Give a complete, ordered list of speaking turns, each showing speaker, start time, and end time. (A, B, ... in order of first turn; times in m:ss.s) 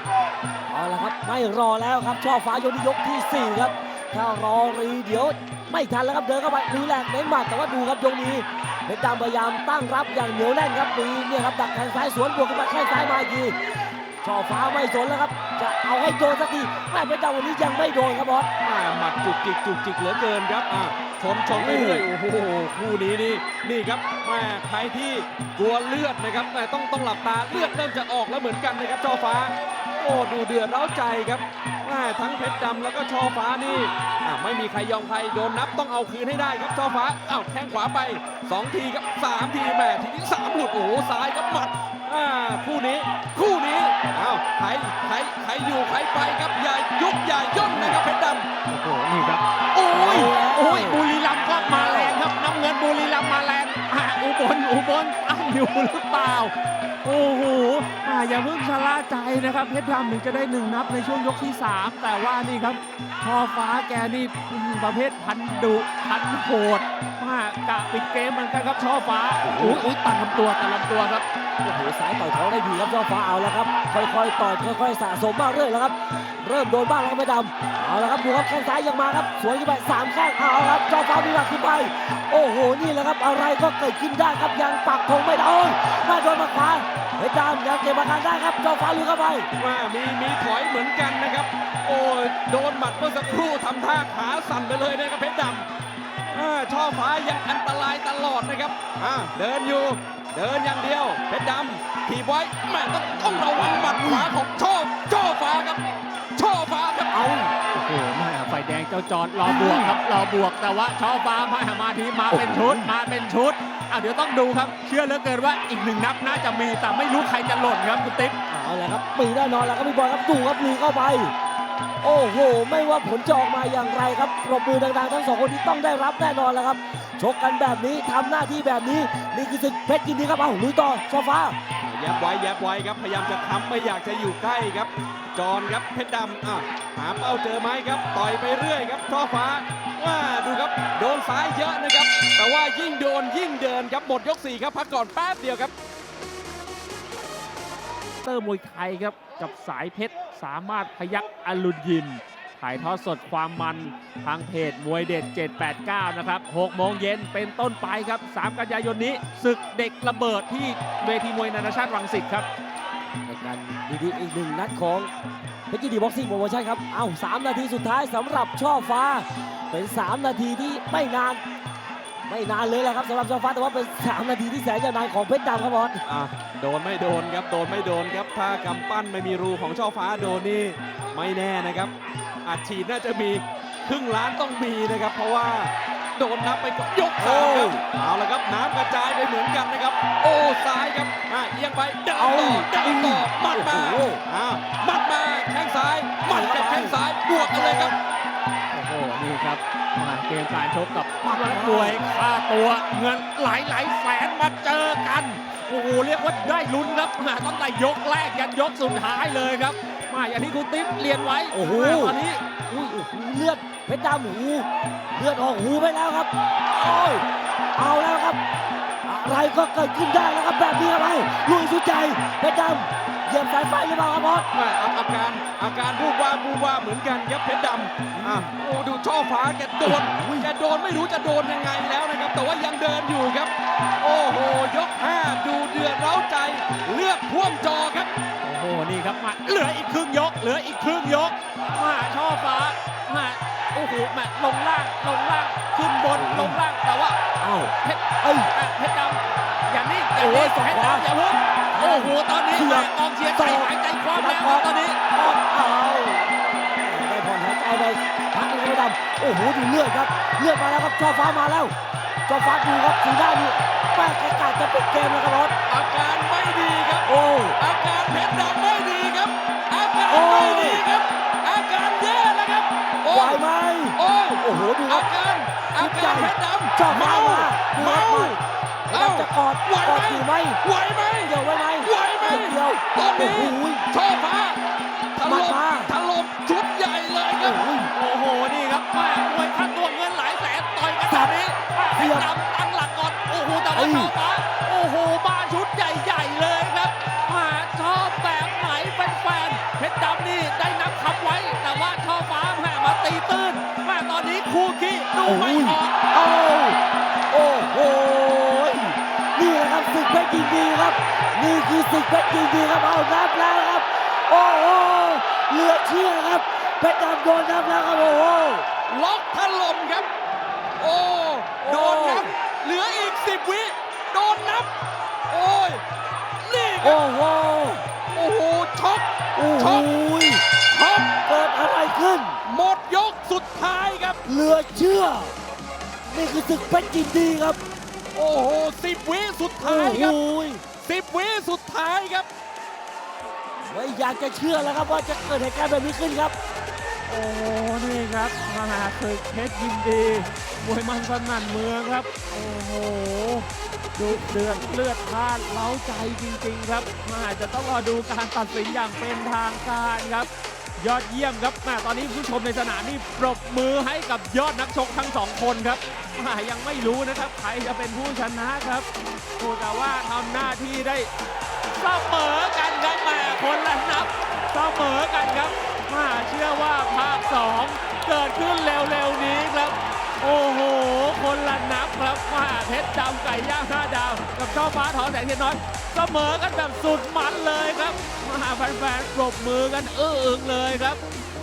0:00.7-0:13.6 A
0:14.2-0:18.5 A
0:18.6-0:48.5 B
0:21.5-0:22.0 A
0:47.6-0:48.0 C
0:48.7-1:11.2 C
0:49.9-0:52.2 A
1:09.4-1:09.8 A
1:11.6-1:29.5 A
1:29.6-1:35.7 B
1:36.3-1:45.8 B
1:43.3-1:44.3 A
1:46.3-1:47.5 B
1:47.7-1:58.3 C
1:49.4-1:49.9 A
1:52.3-1:52.9 A
1:58.5-2:01.3 A
2:02.0-2:11.6 A
2:11.8-2:25.7 B
2:28.2-2:42.5 C
2:43.2-2:45.1 A
2:45.7-2:51.4 A
2:52.2-2:56.0 A
2:56.0-3:01.9 B
3:02.4-3:17.9 B
3:07.2-3:07.8 A
3:12.2-3:14.2 A
3:16.3-3:18.0 A
3:18.7-3:32.4 C
3:21.2-3:22.0 A
3:31.5-3:32.2 A
3:32.7-3:37.2 A
3:37.8-3:38.4 A
3:39.0-3:44.5 A
3:44.5-3:58.1 B
3:48.2-3:48.5 A
3:49.8-3:50.5 A
3:58.4-4:07.2 C
4:06.1-4:06.6 A
4:07.4-4:08.5 A
4:07.8-4:15.0 C
4:10.2-4:11.0 A
4:11.7-4:21.7 A
4:22.3-4:25.5 A
4:25.7-4:33.4 B
4:27.1-4:27.6 A
4:30.1-4:30.8 A
4:33.1-4:35.1 A
4:34.0-4:44.6 B
4:35.8-4:38.4 A
4:38.9-4:40.6 A
4:41.2-4:43.8 A
4:45.2-4:47.7 B
4:45.2-4:45.9 A
4:47.4-4:47.9 A
4:47.9-5:06.0 C
4:51.1-4:51.3 A
4:51.9-4:52.3 A
4:53.7-4:54.1 A
5:05.2-5:06.8 A
5:07.3-5:18.7 A
5:18.9-5:20.1 B
5:20.8-5:24.7 B
5:21.6-5:22.3 A
5:25.3-5:25.8 B
5:26.4-5:27.0 B
5:26.8-5:27.8 A
5:28.1-5:29.9 B
5:29.4-5:30.4 A
5:30.6-5:31.1 B
5:31.2-5:32.4 A
5:32.4-5:34.2 B
5:34.3-5:35.4 A
5:36.1-5:37.6 A
5:38.1-5:40.2 B
5:39.6-5:40.6 A
5:40.8-5:42.3 B
5:43.6-5:46.3 A
5:47.1-6:11.1 C
6:11.8-6:31.0 C